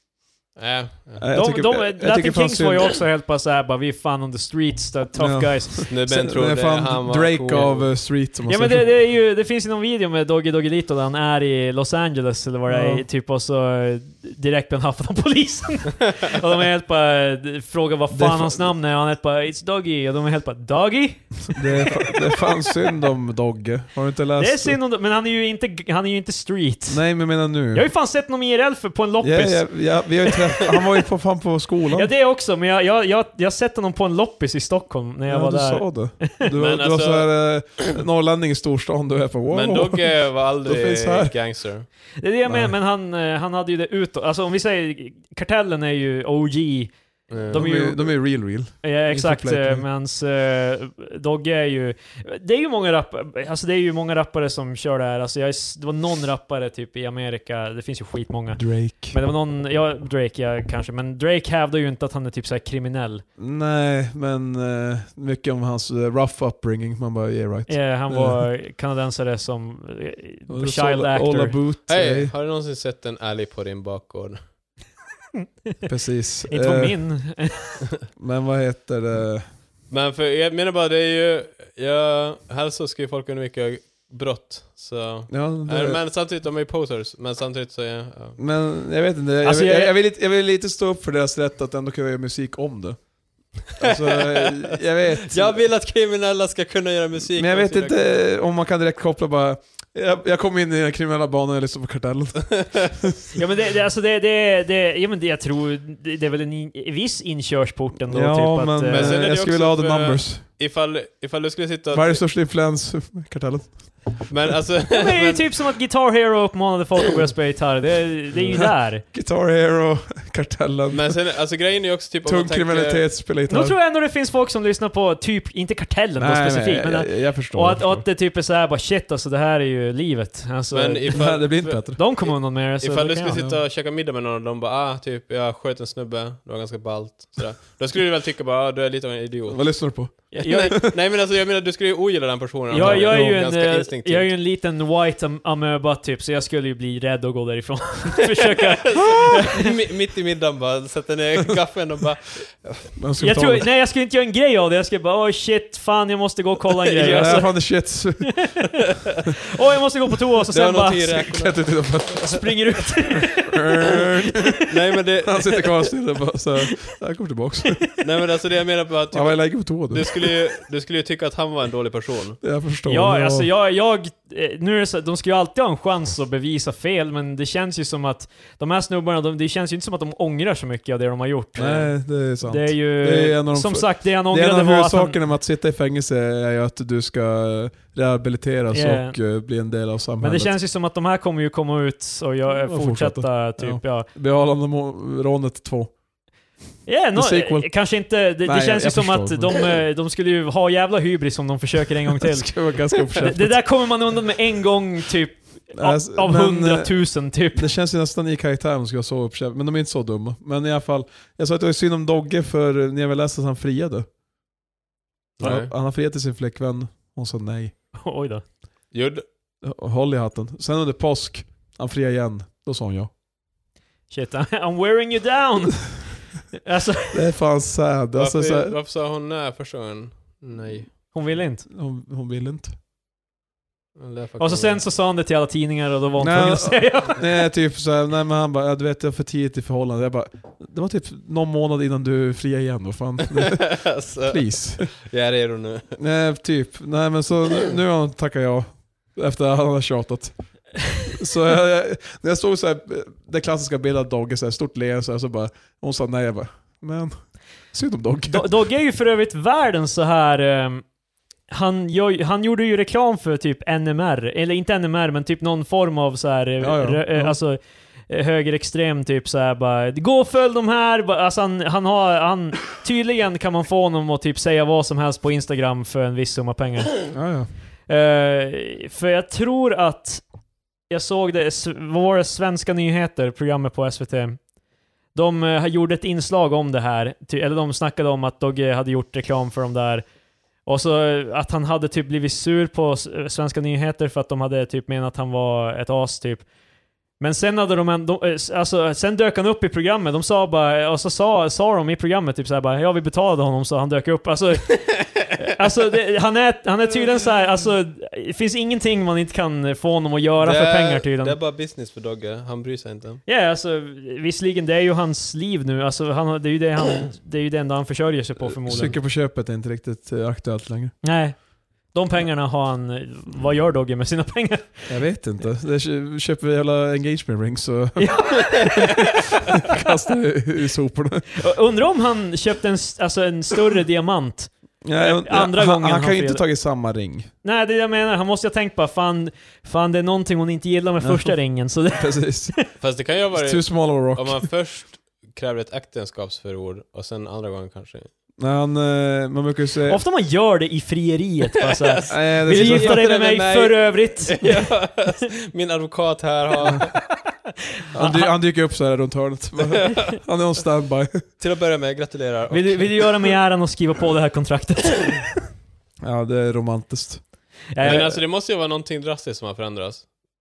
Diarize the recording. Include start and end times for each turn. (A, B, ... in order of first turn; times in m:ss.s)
0:00.6-0:01.2 A
0:01.2-0:02.9 B
0:01.3-0:05.9 C
0:05.2-0:08.9 B
0:05.9-0:08.0 A
0:08.4-0:22.1 C
0:12.7-0:13.0 B
0:18.1-0:18.7 B
0:21.5-0:24.8 B
0:24.4-0:27.0 C
0:26.9-0:27.9 B
0:27.7-0:29.7 C
0:29.2-0:32.1 B
0:31.9-0:36.4 C
0:35.3-0:41.3 B
0:36.6-0:37.8 A
0:39.5-0:41.9 A
0:42.2-0:48.2 C
0:42.4-0:42.7 B
0:47.3-0:47.6 A
0:47.5-0:49.9 B
0:48.8-1:03.2 C
0:58.6-0:59.2 B
1:03.4-1:08.5 B
1:07.7-1:11.6 C
1:10.5-1:12.3 B
1:11.9-1:14.4 A
1:15.9-1:17.0 B
1:16.5-1:17.8 C
1:18.1-1:19.4 B
1:19.9-1:28.4 A
1:25.3-1:26.0 B
1:28.4-1:33.0 B
1:29.4-1:29.9 C
1:33.6-1:35.6 B
1:33.8-1:34.8 A
1:35.3-1:38.2 A
1:37.3-1:43.1 B
1:43.3-1:49.2 C
1:48.1-1:50.4 B
1:48.9-1:52.2 A
1:51.9-1:54.3 B
1:54.3-1:55.5 A
1:54.9-1:59.0 C
1:58.5-2:01.2 B
2:00.9-2:03.1 A
2:02.2-2:03.8 B
2:03.5-2:13.4 C
2:06.2-2:08.1 B
2:10.7-2:24.3 A
2:11.1-2:12.0 B
2:19.5-2:20.9 B
2:20.3-2:20.8 C
2:22.7-2:29.7 C
2:22.7-2:23.4 B
2:28.4-2:32.9 A
2:33.0-2:33.7 B
2:33.2-2:37.7 C
2:36.8-2:37.5 A
2:37.0-2:38.5 B
2:38.3-2:38.5 C
2:39.5-2:41.3 C
2:40.5-2:42.0 A
2:41.2-2:44.6 B
2:42.2-2:44.5 C
2:44.7-2:45.9 A
2:45.2-2:47.9 B
2:48.0-2:52.4 A
2:49.1-2:50.3 B
2:52.4-2:53.5 B
2:52.9-3:01.9 C
3:01.6-3:10.5 B
3:02.4-3:05.2 C
3:08.7-3:09.2 C
3:10.2-3:14.1 C
3:12.6-3:15.9 B
3:16.9-3:27.7 C
3:17.1-3:17.7 B
3:18.4-3:19.6 B
3:22.2-3:23.6 B
3:25.7-3:34.0 B
3:35.4-3:35.7 A
3:35.4-3:37.7 B
3:38.0-3:38.4 C
3:38.9-3:39.2 A
3:39.6-3:43.1 B
3:44.1-3:47.2 C
3:47.1-3:48.7 B
3:48.2-3:51.0 A
3:51.1-3:51.6 C
3:51.7-3:52.7 B
3:54.0-3:54.8 A
3:54.4-3:57.2 C
3:56.2-4:04.9 B
4:03.3-4:06.0 A
4:06.0-4:10.4 B
4:10.9-4:17.2 B
4:17.7-4:18.5 B
4:18.3-4:20.9 C
4:21.5-4:37.1 C
4:26.6-4:27.4 B
4:37.1-4:37.5 B
4:37.9-4:40.2 C
4:40.9-4:44.4 C
4:45.1-4:50.0 C
4:50.6-4:56.4 C
4:57.2-5:11.4 C
5:10.4-5:13.2 A
5:13.2-5:19.0 C
5:18.6-5:21.0 B
5:21.0-5:25.0 C
5:24.9-5:31.3 B
5:28.0-5:29.0 C
5:31.4-5:36.4 C
5:34.8-5:37.3 B
5:37.4-5:42.5 C
5:41.0-5:41.4 B
5:41.9-5:42.6 B
5:42.8-5:48.1 A
5:43.3-5:44.4 B
5:48.4-5:50.0 B
5:49.9-5:54.9 C
5:51.8-5:56.9 A
5:52.1-5:53.0 B
5:57.9-6:01.2 B
5:58.0-5:58.3 C
5:59.7-6:00.1 A
6:01.4-6:03.3 A
6:02.5-6:05.3 C
6:06.0-6:07.2 B
6:07.7-6:08.1 C
6:07.8-6:10.0 A